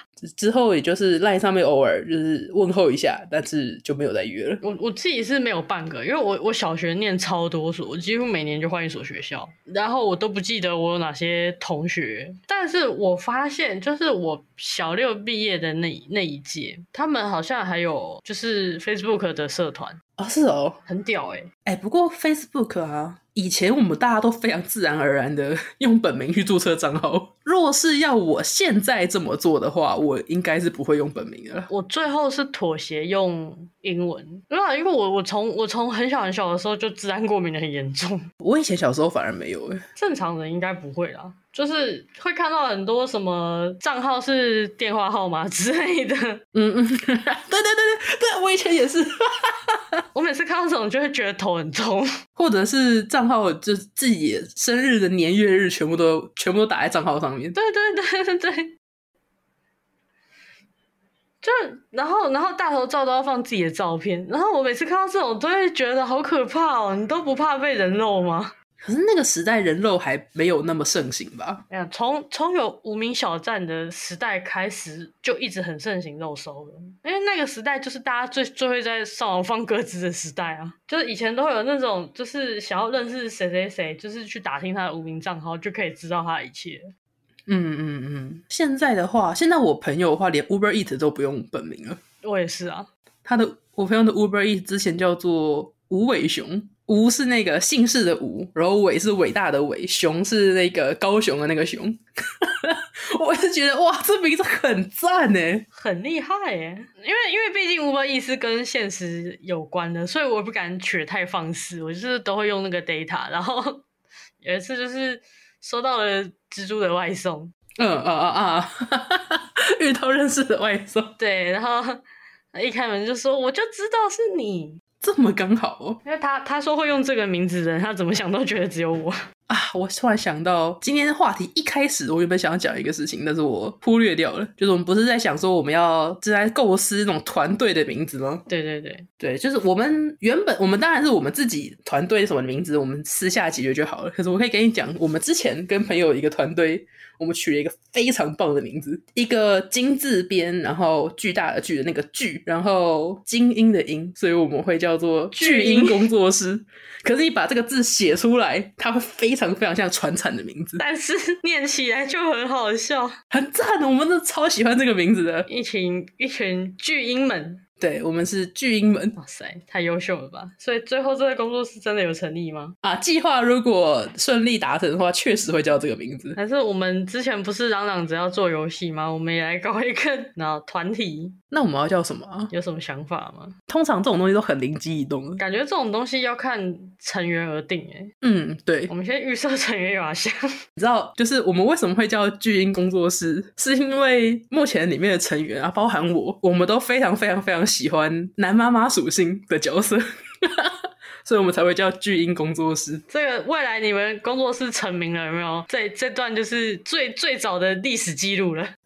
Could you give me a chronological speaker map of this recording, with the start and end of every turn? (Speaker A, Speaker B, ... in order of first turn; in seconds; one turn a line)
Speaker A: 0.2-4.6
Speaker B: 4.6-20.0
Speaker A: 20.2-20.8
Speaker B: 20.9-21.5
Speaker A: 21.6-31.7
Speaker B: 31.7-38.3
Speaker A: 38.4-39.8
Speaker B: 40.0-46.4
Speaker A: 46.5-49.8
Speaker B: 50.1-52.1
Speaker A: 52.4-57.5
Speaker B: 57.5-58.7
Speaker B: 61.4-68.5
Speaker A: 68.8-71.6
Speaker B: 71.7-86.9
Speaker A: 87.5-92.0
Speaker B: 92.2-92.9
Speaker A: 93.2-105.6
Speaker B: 105.7-113.8
Speaker B: 114.4-117.5
Speaker A: 117.8-121.1
Speaker B: 121.2-122.0
Speaker B: 122.5-124.8
Speaker A: 125.0-126.0
Speaker B: 126.0-129.1
Speaker A: 129.5-138.4
Speaker B: 138.5-139.1
Speaker A: 139.2-160.8
Speaker B: 155.3-156.1
Speaker B: 160.8-163.2
Speaker A: 163.3-165.5
Speaker B: 165.5-167.6
Speaker A: 167.8-169.2
Speaker B: 169.2-172.7
Speaker A: 172.8-176.4
Speaker B: 176.3-181.3
Speaker A: 181.5-182.5
Speaker B: 182.5-183.5
Speaker A: 183.7-185.4
Speaker B: 185.4-188.1
Speaker A: 188.2-188.9
Speaker B: 188.9-190.4
Speaker A: 190.8-203.0
Speaker B: 203.1-208.7